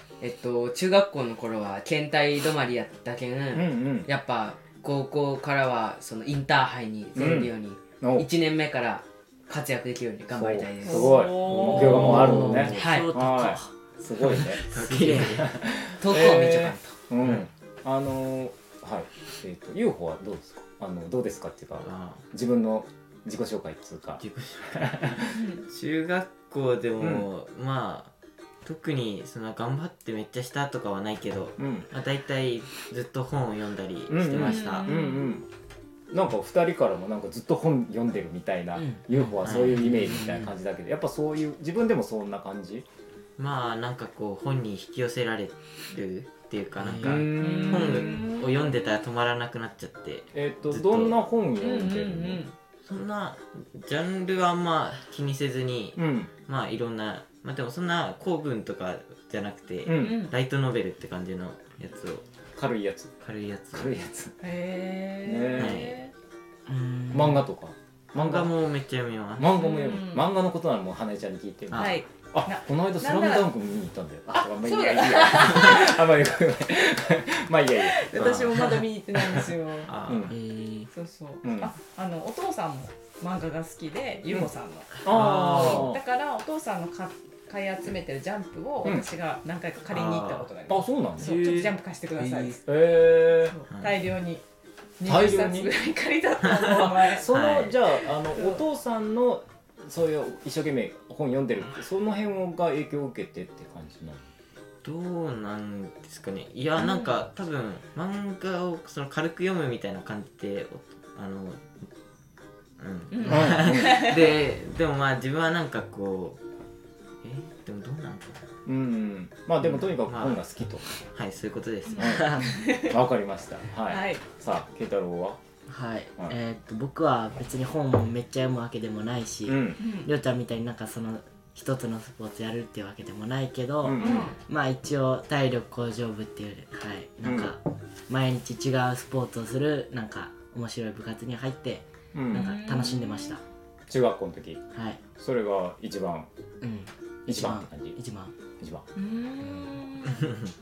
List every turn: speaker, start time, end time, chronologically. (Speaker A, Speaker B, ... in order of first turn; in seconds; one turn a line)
Speaker A: 0.2-11.3
Speaker B: 3.5-4.1
Speaker B: 7.1-8.3
Speaker B: 10.3-25.4
Speaker C: 10.8-12.3
Speaker D: 11.5-13.7
Speaker E: 11.8-12.8
Speaker A: 12.0-13.1
Speaker D: 14.2-15.4
Speaker E: 14.3-15.6
Speaker A: 16.0-16.9
Speaker E: 21.8-22.2
Speaker E: 24.2-28.1
Speaker C: 25.3-25.6
Speaker B: 27.0-27.3
Speaker E: 28.6-35.0
Speaker B: 31.6-31.9
Speaker B: 34.1-35.4
Speaker C: 34.4-35.4
Speaker B: 36.1-42.9
Speaker E: 39.4-40.0
Speaker A: 39.8-40.5
Speaker E: 43.4-51.1
Speaker D: 46.8-47.3
Speaker B: 47.0-48.2
Speaker C: 47.3-48.8
Speaker B: 50.3-52.4
Speaker C: 51.6-52.5
Speaker E: 52.8-62.2
Speaker B: 56.0-56.3
Speaker B: 59.9-60.2
Speaker C: 59.9-60.3
Speaker B: 62.6-63.1
Speaker E: 63.2-63.9
Speaker B: 63.7-64.3
Speaker C: 64.4-66.1
Speaker B: 65.2-65.8
Speaker E: 65.5-66.0
Speaker D: 66.7-67.4
Speaker B: 67.1-68.5
Speaker E: 68.2-69.5
Speaker B: 69.4-80.3
Speaker C: 69.5-70.3
Speaker C: 71.7-73.5
Speaker C: 74.4-76.0
Speaker C: 77.8-79.9
Speaker E: 78.2-78.8
Speaker E: 79.8-80.3
Speaker D: 80.3-80.9
Speaker C: 80.9-92.6
Speaker B: 81.4-81.7
Speaker E: 85.0-85.9
Speaker B: 85.0-86.0
Speaker B: 88.8-89.1
Speaker E: 89.9-90.5
Speaker B: 90.7-91.7
Speaker A: 92.2-92.5
Speaker B: 92.7-93.5
Speaker C: 93.3-94.4
Speaker E: 93.7-94.0
Speaker C: 95.0-97.2
Speaker B: 95.0-95.7
Speaker E: 96.4-97.8
Speaker B: 96.7-104.2
Speaker C: 98.3-98.6
Speaker E: 104.8-111.9
Speaker C: 106.8-107.2
Speaker E: 112.8-116.4
Speaker C: 113.1-114.4
Speaker B: 113.3-114.0
Speaker E: 117.2-118.5
Speaker B: 118.7-120.8
Speaker E: 120.0-120.4
Speaker E: 121.0-122.4
Speaker C: 121.9-123.0
Speaker B: 122.0-125.4
Speaker D: 122.2-122.5
Speaker C: 123.8-124.2
Speaker D: 125.7-143.4
Speaker B: 129.5-129.8
Speaker C: 129.8-130.1
Speaker B: 133.8-134.3
Speaker C: 133.9-134.4
Speaker B: 137.2-137.5
Speaker B: 142.1-142.5
Speaker C: 142.3-143.4
Speaker B: 143.9-144.6
Speaker D: 144.7-145.0
Speaker B: 145.2-146.3
Speaker D: 146.6-148.3
Speaker B: 147.3-148.0
Speaker B: 148.6-148.8
Speaker C: 148.9-150.3